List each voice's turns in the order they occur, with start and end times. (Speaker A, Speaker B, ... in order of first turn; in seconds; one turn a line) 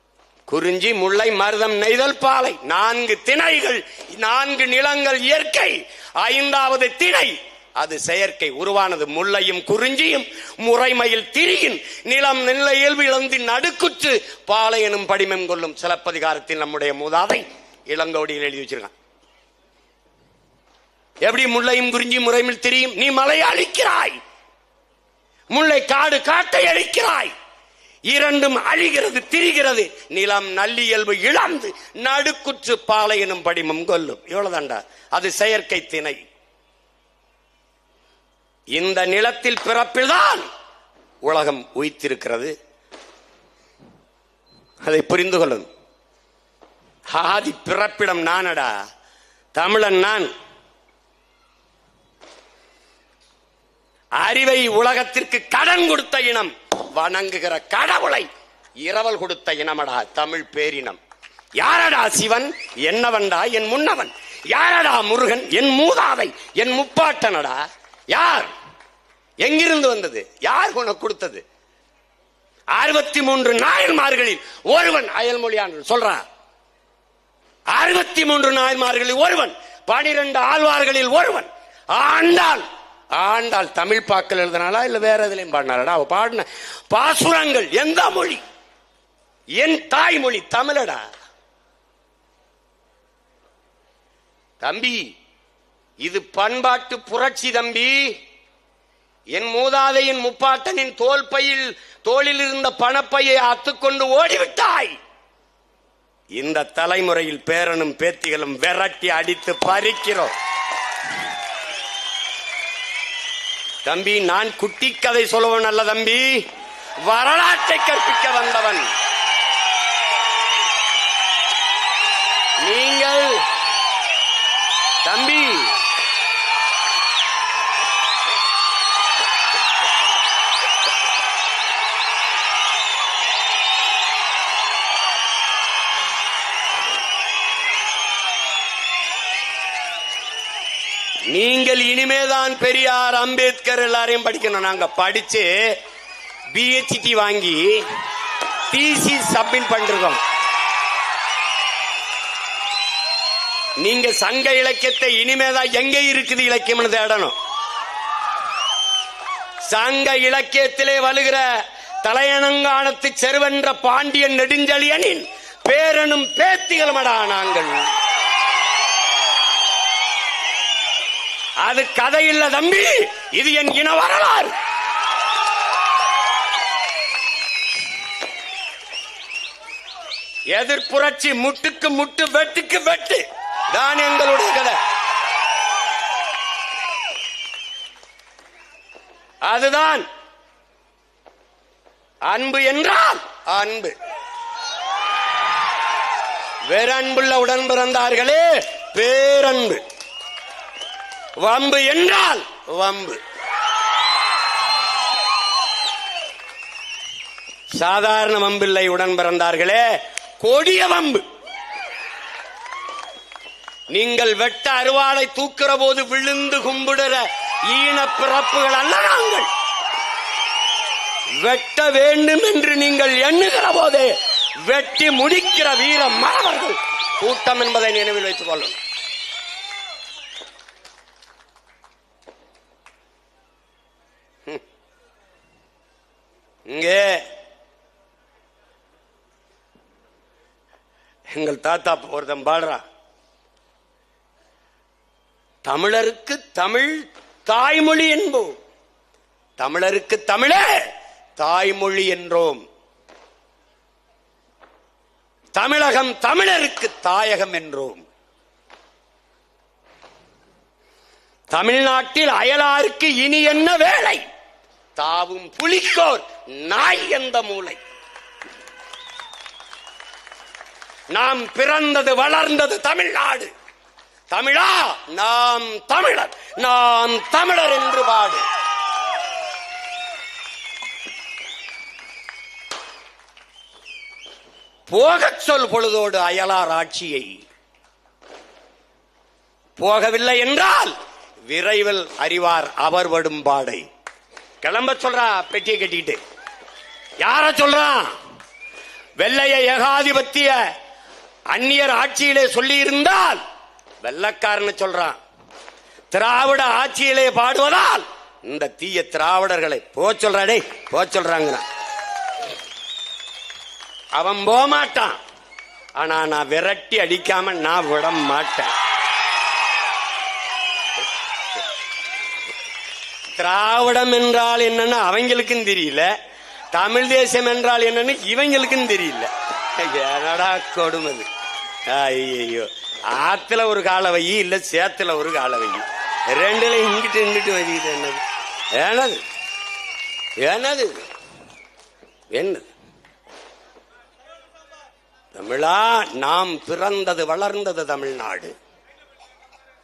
Speaker A: 0.5-18.9
Speaker A: 21.2-24.2
Speaker A: 25.5-27.3
Speaker A: 28.1-36.2
Speaker A: 38.7-40.5
Speaker A: 41.2-42.5
Speaker A: 44.8-45.7
Speaker A: 47.1-48.7
Speaker A: 49.5-50.3
Speaker A: 54.2-58.3
Speaker A: 58.8-61.0
Speaker A: 61.6-68.5
Speaker A: 69.4-71.4
Speaker A: 72.7-76.2
Speaker A: 77.7-88.4
Speaker A: 89.6-91.0
Speaker A: 94.6-95.1
Speaker A: 96.0-98.2
Speaker A: 99.3-105.0
Speaker A: 106.3-110.3
Speaker A: 113.8-116.4
Speaker A: 117.0-118.9
Speaker A: 122.6-123.5
Speaker A: 125.0-125.7
Speaker A: 141.3-145.8
Speaker A: 146.5-147.9
Speaker A: 148.7-150.2
Speaker A: 153.8-157.3
Speaker A: 159.7-161.5
Speaker A: 162.0-167.8
Speaker A: 171.6-174.6
Speaker A: 180.5-184.8
Speaker A: 189.4-190.1
Speaker A: 192.3-193.9
Speaker A: 196.7-199.8
Speaker A: 201.4-203.2
Speaker A: 207.7-209.8
Speaker A: 210.4-211.2
Speaker A: 213.9-219.5
Speaker A: 221.4-228.8
Speaker A: 236.7-237.3
Speaker A: 241.3-242.8
Speaker A: 245.6-248.6
Speaker A: 249.6-250.7
Speaker A: 251.4-252.6
Speaker A: 255.5-258.0
Speaker A: 261.5-264.2
Speaker A: 265.0-267.8
Speaker A: 271.1-273.5
Speaker A: 274.3-278.4
Speaker A: 284.9-287.3
Speaker A: 289.8-290.9
Speaker A: 291.5-293.9
Speaker A: 294.6-296.2
Speaker A: 297.2-298.1
Speaker A: 299.2-300.6
Speaker A: 301.5-303.4
Speaker A: 304.0-305.2
Speaker A: 306.1-311.6
Speaker A: 314.1-315.2
Speaker A: 316.0-318.7
Speaker A: 323.3-326.1
Speaker A: 326.7-331.3
Speaker A: 331.9-339.2
Speaker A: 340.4-341.0
Speaker A: 342.3-342.7
Speaker A: 345.3-348.5